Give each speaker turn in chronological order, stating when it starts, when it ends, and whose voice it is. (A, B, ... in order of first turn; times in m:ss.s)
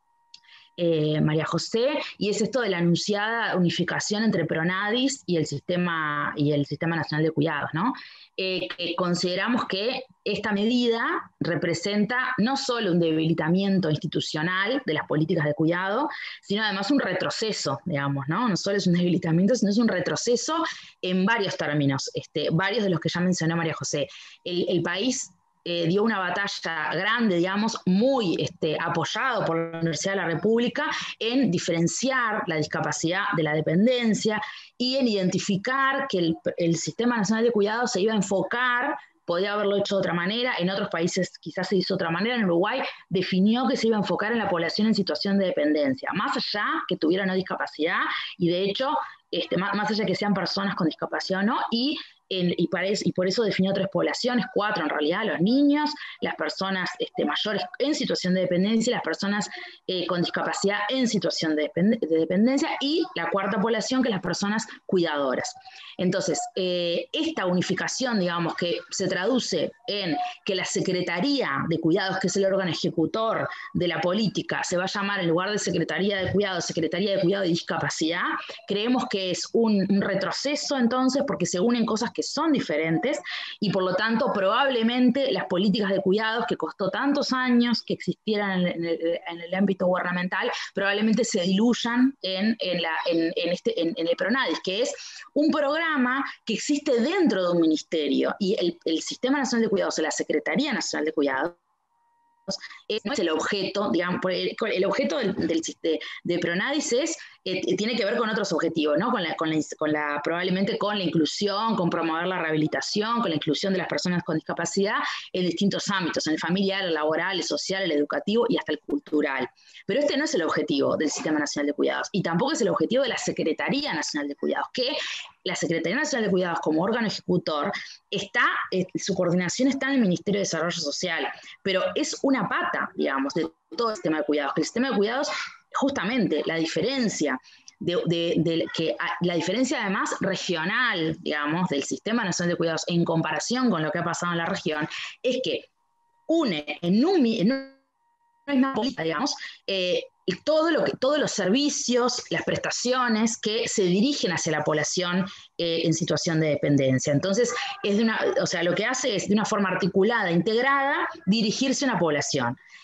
0:00.8-1:41.6 A
1:42.5-2:25.7 A
2:26.3-2:27.7 A
2:28.5-2:42.6 A